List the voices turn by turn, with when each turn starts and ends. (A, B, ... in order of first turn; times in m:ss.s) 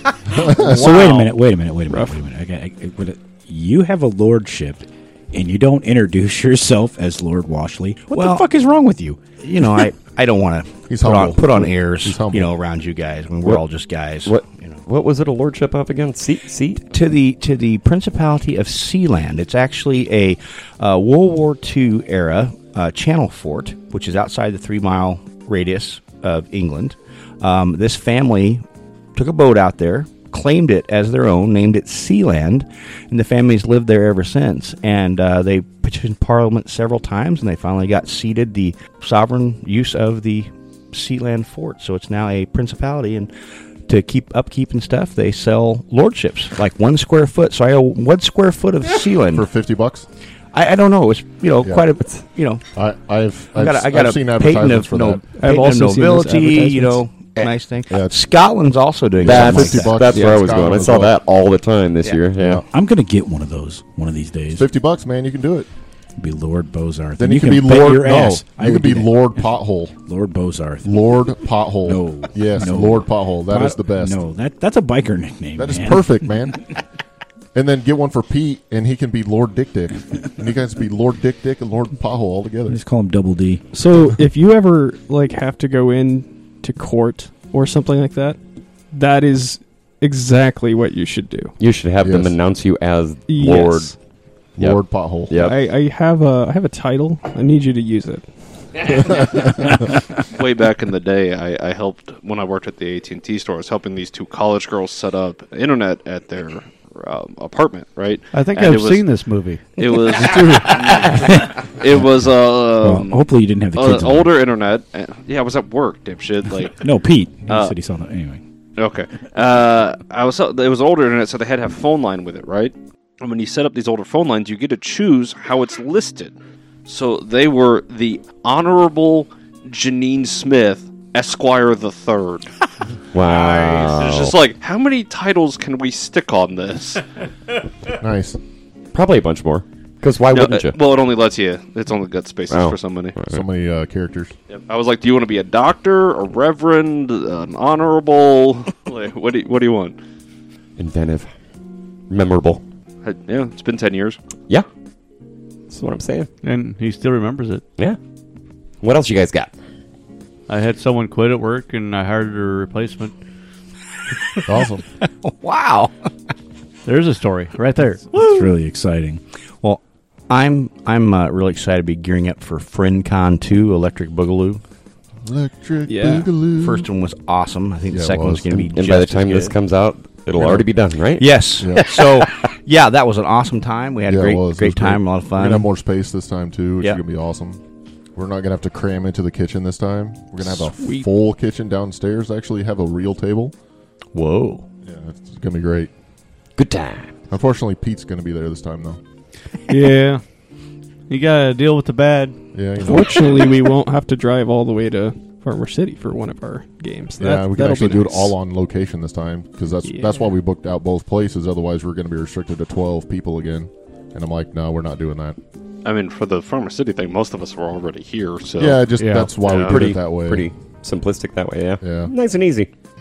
0:00.3-0:09.2 A
0:00.4-0:00.7 B
0:01.9-0:02.2 C
0:08.1-0:08.5 D
0:09.4-0:14.8 D
0:10.9-0:12.5 B
0:14.2-0:16.8 E
0:16.8-0:28.6 D
0:29.1-0:43.3 D
0:43.9-0:49.5 D
0:49.3-0:50.1 B
0:50.5-0:52.6 D
0:52.7-0:55.2 B
0:53.5-1:00.3 D
0:55.4-0:57.0 C
0:57.9-0:58.1 B
0:59.2-1:01.1 B
0:59.2-1:02.6 E
1:02.4-1:02.6 B
1:02.6-1:04.6 A
1:04.5-1:05.7 B
1:06.2-1:09.4 A
1:07.2-1:09.9 B
1:10.0-1:10.9 A
1:10.8-1:14.2 B
1:11.8-1:16.2 A
1:15.6-1:16.6 B
1:17.5-1:22.8 B
1:22.7-1:23.6 A
1:23.7-1:28.4 C
1:28.9-1:31.5 C
1:31.6-1:33.9 E
1:32.0-1:32.3 B
1:33.3-1:33.9 C
1:34.6-1:35.3 B
1:34.6-1:35.6 E
1:35.3-1:38.2 C
1:38.9-1:39.8 B
1:40.2-1:49.1 F
1:48.3-1:51.0 G
1:49.8-1:56.8 F
1:51.3-1:51.5 A
1:52.8-1:54.3 A
1:56.8-1:58.4 A
1:57.5-1:57.7 F
1:58.8-2:06.3 F
2:06.8-2:12.5 F
2:13.1-2:14.4 E
2:13.2-2:17.0 F
2:18.0-2:18.4 B
2:18.9-2:20.8 E
2:20.3-2:23.2 F
2:22.5-2:23.4 E
2:23.3-2:24.3 B
2:24.5-2:30.0 F
2:30.8-2:31.3 E
2:32.1-2:32.6 E
2:33.0-2:34.2 F
2:35.7-2:36.3 E
2:36.4-2:37.6 G
2:38.8-2:39.5 E
2:40.5-2:43.1 G
2:44.4-2:44.8 B
2:45.2-2:45.9 D
2:46.8-2:48.5 G
2:48.1-2:49.2 A
2:49.6-2:54.6 D
2:55.2-2:56.9 B
2:55.9-2:56.3 C
2:56.6-2:59.5 D
2:57.9-2:58.6 B
2:58.6-3:02.2 E
3:00.4-3:00.6 B
3:01.2-3:05.7 D
3:01.6-3:01.9 B
3:04.1-3:07.6 B
3:08.1-3:13.5 B
3:10.6-3:11.0 C
3:14.1-3:14.6 D
3:14.8-3:15.9 B
3:16.6-3:17.1 E
3:17.3-3:19.0 B
3:19.7-3:20.2 G
3:21.1-3:22.3 G
3:22.5-3:23.4 B
3:22.8-3:28.3 C
3:27.2-3:35.4 B
3:29.9-3:30.2 C
3:35.8-3:38.9 F
3:38.6-3:40.5 B
3:39.0-3:39.3 G
3:39.4-3:39.8 F
3:39.5-3:42.7 E
3:41.8-3:42.1 B